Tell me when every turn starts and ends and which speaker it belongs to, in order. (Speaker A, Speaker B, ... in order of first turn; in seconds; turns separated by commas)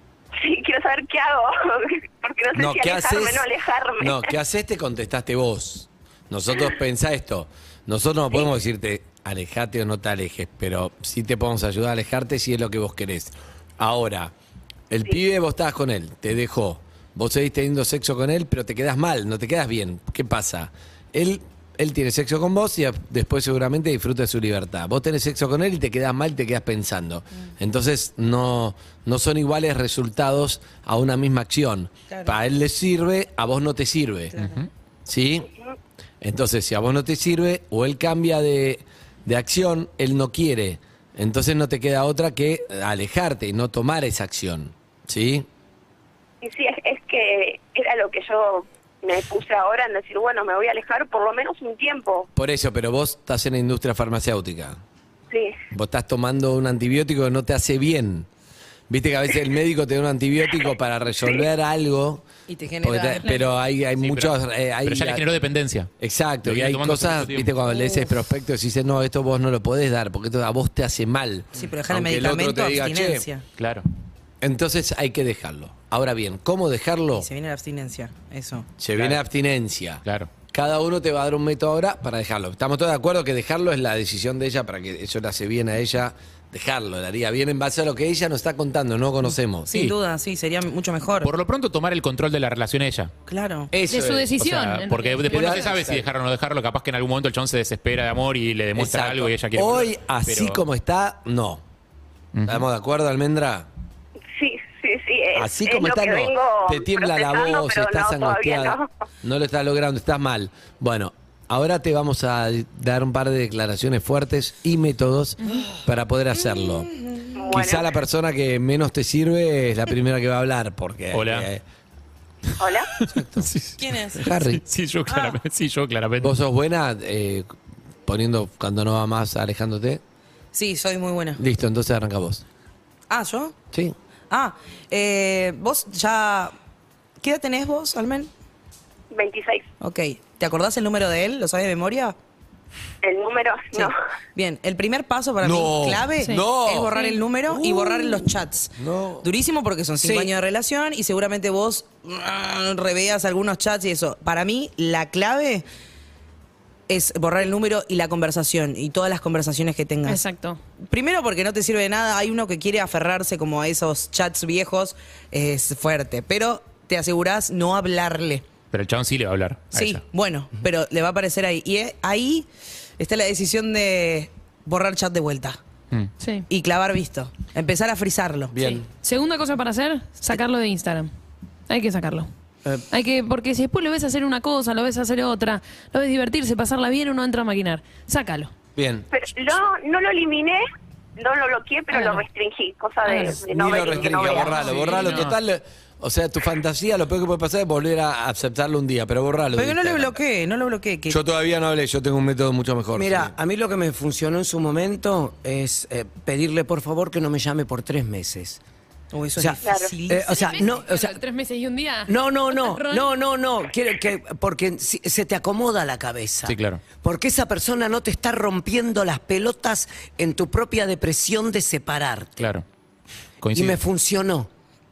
Speaker A: 0.3-4.2, Speaker B: 2.5-3.5, Speaker B: 4.0-14.3, Speaker B: 14.9-34.4, Speaker C: 32.1-32.4, Speaker C: 34.3-34.6, Speaker D: 34.4-34.6, Speaker B: 35.0-35.5, Speaker B: 36.2-45.5, Speaker A: 46.4-52.3, Speaker B: 52.3-54.8, Speaker A: 55.3-55.5, Speaker B: 55.7-58.3, Speaker B: 58.9-62.3, Speaker C: 62.5-63.5, Speaker B: 62.8-65.2, Speaker D: 64.0-65.9, Speaker B: 66.0-73.2, Speaker D: 66.4-67.5, Speaker C: 71.5-73.4, Speaker D: 73.6-73.8, Speaker B: 74.4-77.3, Speaker C: 77.2-79.2, Speaker B: 78.8-89.8, Speaker D: 80.0-80.3, Speaker C: 89.7-91.3, Speaker D: 89.7-89.9, Speaker D: 91.2-93.1, Speaker C: 93.3-93.7, Speaker B: 93.7-94.4, Speaker E: 93.9-95.7, Speaker D: 94.4-100.6, Speaker B: 95.3-96.1, Speaker B: 98.8-101.6, Speaker D: 102.3-102.7, Speaker B: 102.5-103.7, Speaker A: 104.3-108.9, Speaker B: 105.3-116.9, Speaker C: 116.3-117.5, Speaker A: 117.4-117.9, Speaker B: 117.5-121.6, Speaker D: 121.1-121.5, Speaker A: 122.6-122.9, Speaker D: 123.0-126.3, Speaker B: 123.1-123.5, Speaker C: 123.8-124.2, Speaker B: 124.2-124.6, Speaker C: 125.1-125.4, Speaker B: 126.2-127.5, Speaker B: 128.1-130.0, Speaker C: 130.5-131.4, Speaker B: 131.4-132.4, Speaker C: 133.1-133.6, Speaker C: 134.3-136.5, Speaker C: 137.2-138.3, Speaker A: 139.1-139.7, Speaker C: 139.8-142.2, Speaker A: 143.0-144.0, Speaker C: 143.7-155.6, Speaker B: 145.4-147.0, Speaker E: 146.2-147.2, Speaker B: 147.5-148.2, Speaker B: 148.8-149.3, Speaker F: 150.0-150.3, Speaker C: 156.9-160.2, Speaker E: 160.0-160.6, Speaker C: 160.8-168.4, Speaker D: 168.7-170.0, Speaker C: 169.7-172.5, Speaker C: 173.0-175.6, Speaker E: 176.2-176.4, Speaker C: 176.5-178.6, Speaker B: 178.5-178.9, Speaker E: 178.6-181.1, Speaker E: 181.7-182.3, Speaker E: 182.9-188.5, Speaker B: 188.8-189.1, Speaker A: 189.1-190.6, Speaker A: 191.2-194.9, Speaker E: 191.9-192.2, Speaker E: 193.0-193.4, Speaker B: 193.4-200.2, Speaker D: 194.6-195.3, Speaker C: 199.6-201.2, Speaker B: 201.1-203.3, Speaker F: 202.9-208.6, Speaker C: 209.1-210.5, Speaker F: 209.3-211.2, Speaker A: 209.6-209.9, Speaker E: 210.2-213.1, Speaker F: 212.1-222.4, Speaker D: 216.4-216.8, Speaker D: 222.4-222.6, Speaker D: 223.4-223.8, Speaker F: 223.5-224.5